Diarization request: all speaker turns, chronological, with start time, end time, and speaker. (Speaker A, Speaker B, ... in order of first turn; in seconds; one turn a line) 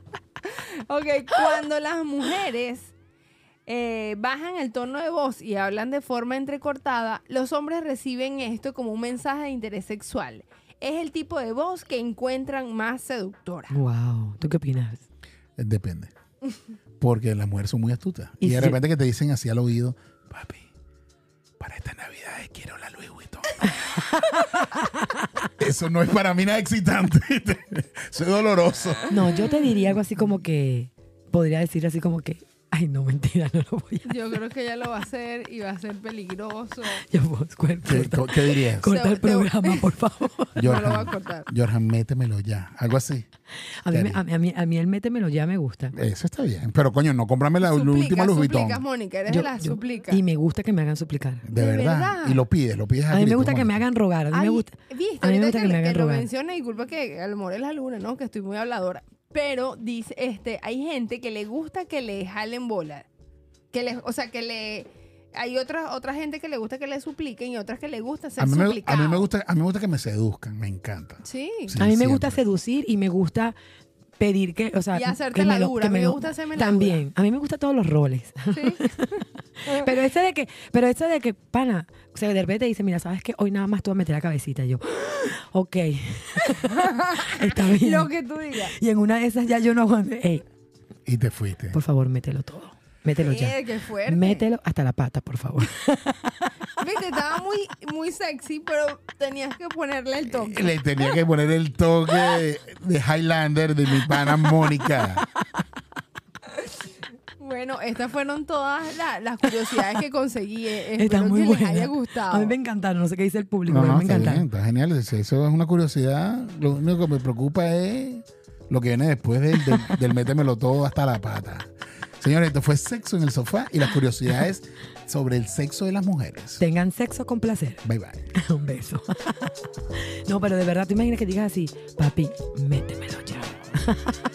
Speaker A: 0.5-2.9
Speaker A: 3.7-13.8
Speaker B: 13.7-15.0
Speaker C: 15.6-16.1
Speaker C: 17.0-20.7
Speaker B: 18.4-18.8
Speaker C: 21.6-23.5
Speaker B: 23.8-24.9
Speaker C: 25.6-29.2
Speaker B: 29.1-34.2
Speaker A: 34.0-37.0
Speaker B: 37.0-40.7
Speaker C: 37.9-38.9
Speaker A: 38.8-39.9
Speaker A: 40.6-41.5
Speaker C: 40.6-43.3
Speaker B: 43.8-45.9
Speaker C: 43.9-44.2
Speaker C: 45.9-48.8
Speaker A: 47.6-50.2
Speaker B: 49.3-51.4
Speaker C: 51.4-53.8
Speaker A: 51.5-52.4
Speaker B: 53.1-56.3
Speaker A: 54.3-63.1
Speaker A: 63.7-69.3
Speaker C: 68.4-72.4
Speaker A: 71.2-71.8
Speaker B: 71.8-73.5
Speaker B: 74.2-86.8
Speaker A: 74.9-77.1
Speaker A: 78.5-79.8
Speaker A: 86.4-88.8
Speaker B: 87.3-88.1
Speaker B: 88.6-90.5
Speaker C: 91.1-91.8
Speaker B: 91.7-96.4
Speaker A: 93.2-94.5
Speaker A: 96.8-101.1
Speaker C: 100.3-105.2
Speaker A: 107.4-112.6
Speaker B: 111.0-114.5
Speaker C: 113.7-126.6
Speaker B: 126.6-127.8
Speaker C: 127.8-128.2
Speaker B: 128.3-129.6
Speaker B: 130.3-134.2